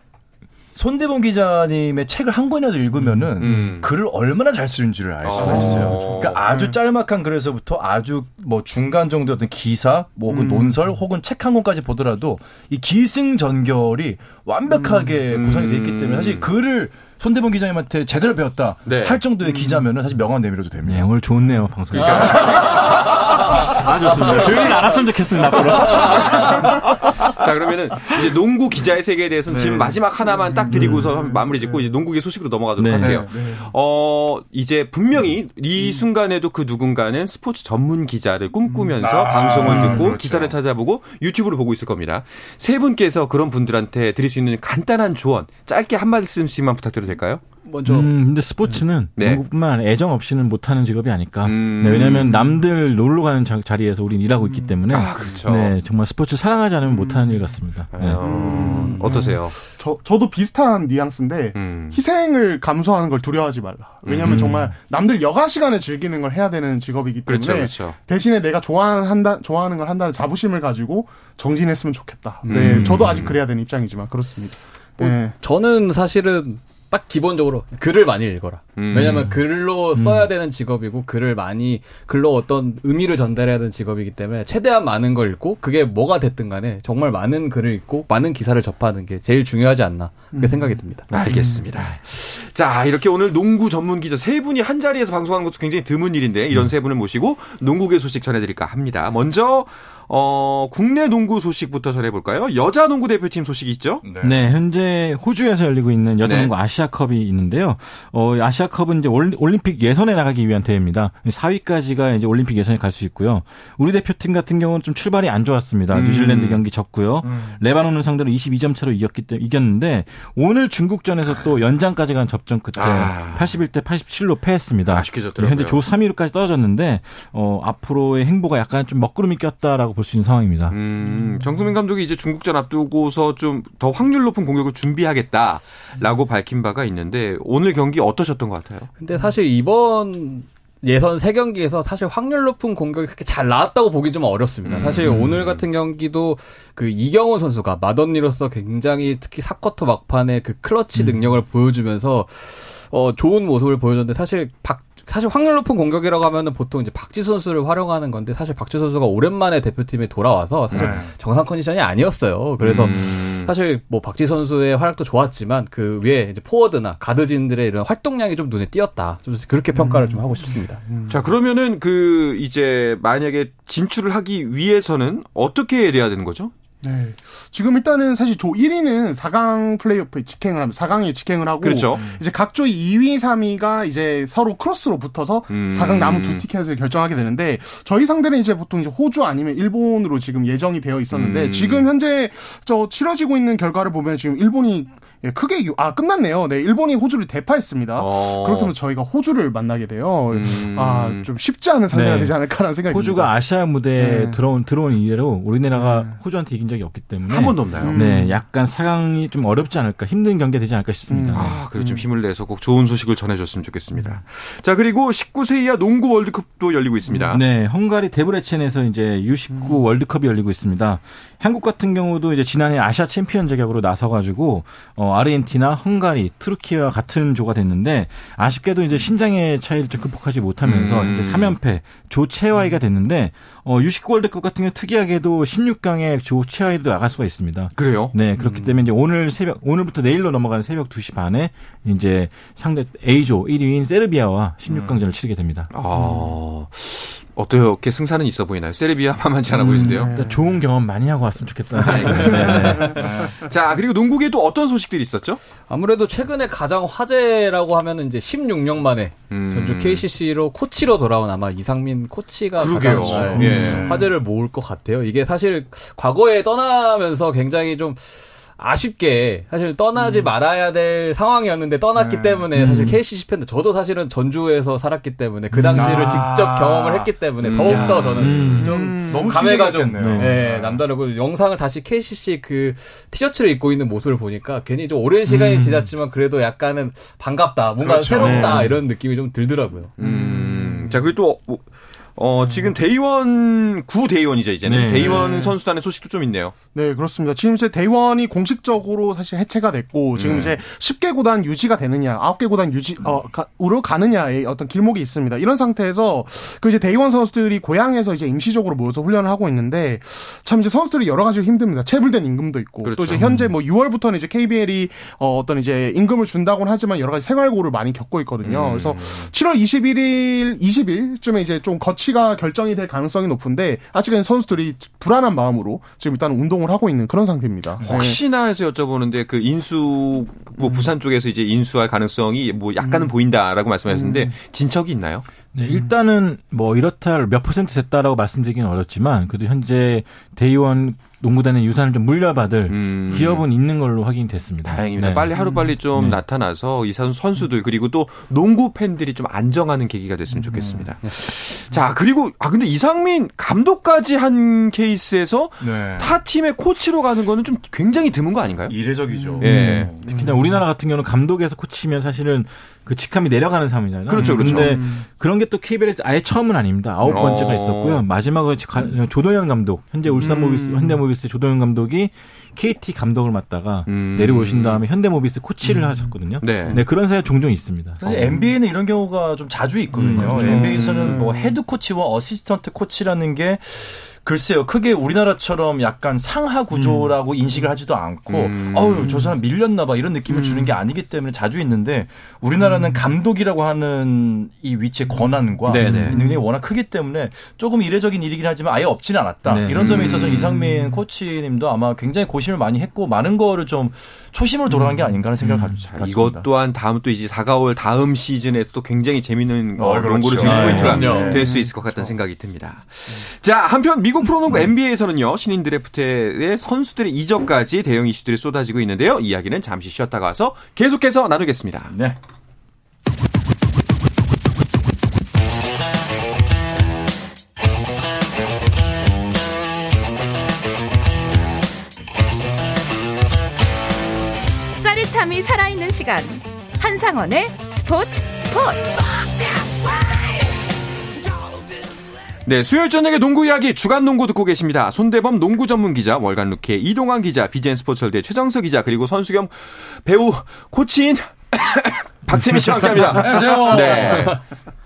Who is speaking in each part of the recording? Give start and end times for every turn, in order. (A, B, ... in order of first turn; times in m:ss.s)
0:00.7-0:21.1 A
0:03.2-0:03.7 B
0:03.4-0:03.9 C
0:05.2-0:06.4 C
0:05.4-0:06.8 D
0:10.3-0:10.8 D
0:14.7-0:15.1 D
0:15.3-0:16.5 C
0:18.8-0:19.2 C
0:19.4-0:19.9 D
0:20.8-0:27.1 B
0:21.9-0:24.9 C
0:25.5-0:47.4 C
0:26.5-0:26.8 D
0:29.5-0:31.8 D
0:30.7-0:31.0 B
0:32.8-0:33.2 B
0:33.0-0:33.3 A
0:33.3-0:33.7 D
0:35.8-0:36.0 D
0:38.7-0:39.0 D
0:39.0-0:40.6 A
0:39.6-0:40.1 D
0:47.6-0:48.1 E
0:47.8-0:58.2 B
0:49.2-0:49.4 C
0:51.4-0:52.5 C
0:52.1-0:52.3 D
0:54.4-0:54.8 D
0:54.9-0:55.7 C
0:56.8-0:57.6 D
0:57.9-0:59.6 C
0:58.2-1:15.3 D
0:58.5-0:59.3 E
1:01.5-1:02.0 C
1:04.0-1:04.5 C
1:04.2-1:04.7 B
1:07.2-1:08.0 C
1:12.4-1:12.8 E
1:12.4-1:13.4 C
1:12.6-1:13.3 B
1:15.0-1:31.1 E
1:18.8-1:19.4 C
1:19.9-1:20.3 B
1:30.3-1:31.6 D
1:31.1-1:44.1 C
1:44.0-1:44.5 A
1:44.2-2:10.8 B
1:46.2-1:46.5 C
1:55.9-1:56.6 C
2:02.7-2:03.6 C
2:04.9-2:05.8 C
2:10.7-2:18.9 C
2:11.0-2:11.6 D
2:19.0-2:50.8 E
2:24.6-2:25.6 C
2:25.0-2:25.3 B
2:30.9-2:31.4 B
2:40.7-2:41.0 C
2:40.7-2:41.1 A
2:42.6-2:43.5 C
2:49.7-2:50.2 D
2:50.8-2:51.3 D
2:51.1-2:56.5 C
2:56.8-3:23.3 D
3:01.6-3:02.2 C
3:05.5-3:06.4 C
3:11.1-3:11.9 C
3:18.0-3:18.7 C
3:20.3-3:21.3 C
3:21.9-3:22.4 B
3:22.9-3:31.6 B
3:24.0-3:24.4 D
3:25.7-3:26.2 D
3:27.3-3:28.0 C
3:27.8-3:28.4 D
3:31.1-3:32.0 D
3:31.3-3:37.4 C
3:37.1-3:37.3 D
3:37.3-4:05.7 B
3:50.6-3:51.6 C
3:57.8-3:58.1 C
3:58.4-3:58.8 E
4:04.7-4:05.0 A
4:05.7-4:10.1 C
4:05.9-4:06.3 D
4:09.6-4:10.6 D
4:09.8-4:13.1 B
4:11.8-4:15.4 C
4:12.7-4:13.3 D
4:12.9-4:13.3 A
4:15.7-4:49.9 E
4:19.3-4:20.0 C
4:22.6-4:24.0 C
4:22.8-4:24.1 A
4:23.3-4:23.7 B
4:31.9-4:32.5 A
4:32.5-4:33.0 B
4:35.5-4:36.3 B
4:35.7-4:40.8 A
4:37.4-4:38.6 C
4:38.2-4:38.7 B
4:38.6-4:39.3 D
4:39.9-4:40.4 B
4:45.3-4:45.9 B
4:47.8-4:48.6 A
4:48.2-4:48.8 B
4:50.0-4:56.5 C
4:50.0-4:50.9 D
4:52.4-4:52.7 D
4:54.6-4:55.4 B
4:54.9-4:55.6 D
4:56.7-5:28.2 D
5:00.1-5:00.6 C
5:12.8-5:13.3 C
5:18.4-5:19.3 C
5:27.8-5:35.2 C
5:30.6-5:30.9 D
5:32.8-5:33.1 D
5:33.9-5:34.3 D
5:35.5-5:45.3 B
5:42.7-5:43.4 C
5:44.6-5:58.8 C
5:45.4-5:45.8 D
5:45.8-5:46.2 B
5:50.5-5:50.9 A
5:55.6-5:56.1 A
5:58.7-6:00.2 A
5:59.1-6:00.6 D
5:59.4-6:00.0 C
5:59.4-6:18.4 B
6:04.1-6:04.7 C
6:04.2-6:05.0 D
6:04.2-6:04.6 A
6:07.0-6:08.0 C
6:10.2-6:11.0 D
6:13.9-6:14.8 C
6:15.6-6:16.2 D
6:16.4-6:16.8 C
6:18.0-6:46.5 A
6:18.0-6:18.5 D
6:20.0-6:20.8 B
6:20.1-6:21.6 D
6:20.2-6:21.2 C
6:28.3-6:29.1 C
6:29.0-6:29.3 D
6:30.3-6:30.8 D
6:32.6-6:33.0 D
6:35.7-6:36.2 C
6:35.8-6:36.1 B
6:35.9-6:36.4 D
6:39.5-6:40.2 B
6:39.7-6:40.5 C
6:40.3-6:40.9 D
6:45.4-6:45.8 B
6:45.8-7:02.0 C
6:49.8-6:51.4 A
6:50.4-6:51.4 E
6:50.4-6:51.3 B
6:51.0-6:52.1 D
7:01.9-7:02.2 A
7:14.8-7:20.4 F
7:22.4-7:34.4 C
7:32.9-7:34.4 A